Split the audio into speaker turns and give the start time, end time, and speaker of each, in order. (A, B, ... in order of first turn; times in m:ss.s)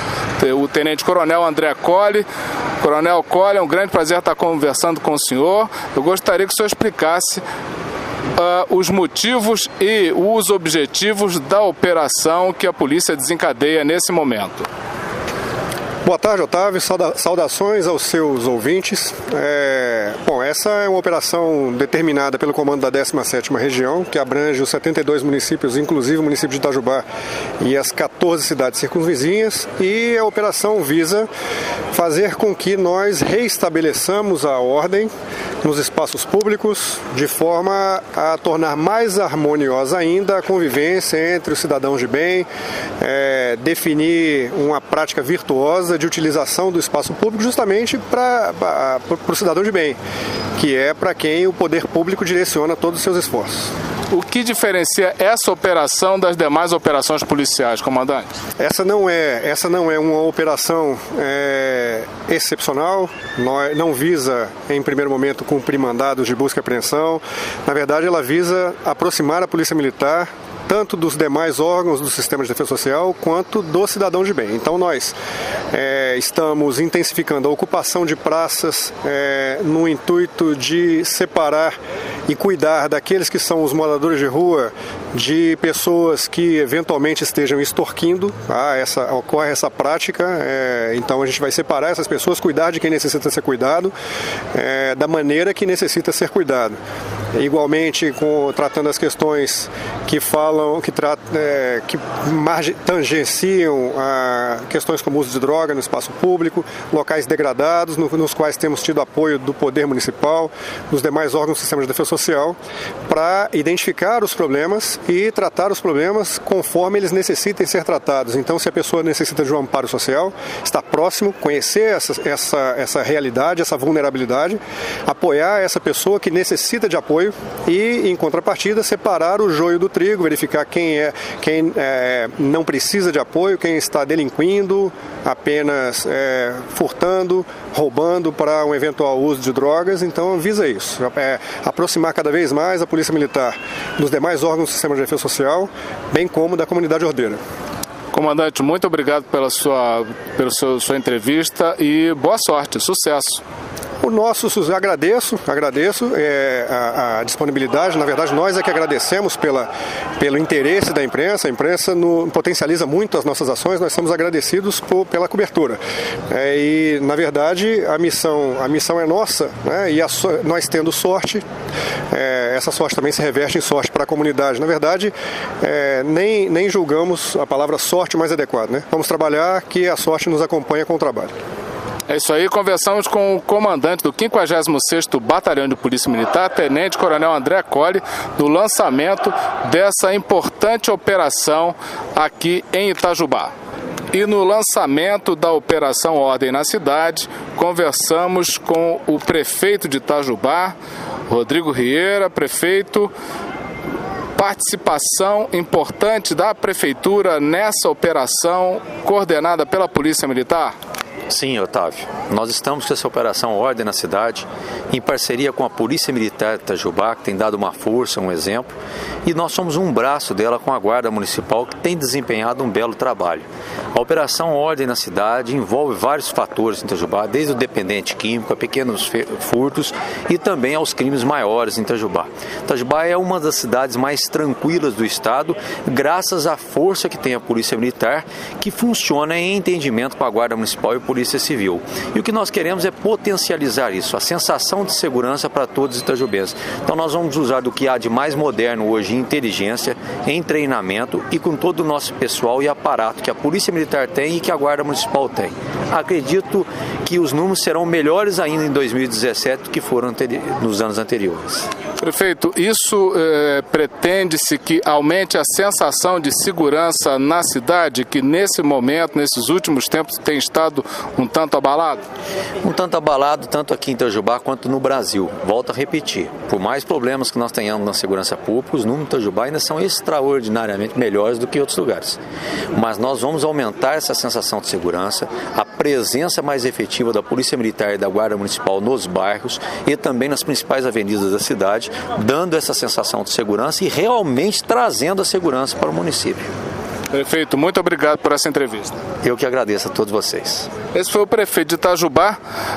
0:00.4-0:02.2 A
0:02.8-0:07.4 A
0:08.4-0:14.7 A
0:16.0-0:27.0 B
0:27.6-0:31.3 B
0:31.9-0:35.1 B
0:35.6-0:42.5 B
0:43.0-0:50.0 B
0:50.6-0:53.7 B
0:54.1-0:58.3 A
0:58.6-1:15.2 B
1:15.7-1:21.7 B
1:22.3-1:33.9 B
1:34.5-1:36.8 B
1:37.3-2:27.4 B
2:28.1-2:33.4 A
2:34.0-2:51.4 B
2:52.1-3:01.3 B
3:02.1-3:13.5 A
3:14.1-3:20.7 A
3:21.3-3:23.1 A
3:24.4-3:30.7 A
3:31.3-3:38.7 C
3:39.2-4:21.7 C
4:22.0-4:32.0 A
4:32.6-4:42.2 C
4:42.7-4:56.5 C
4:57.1-4:59.0 A
4:59.2-5:00.7 C
5:00.9-5:02.4 A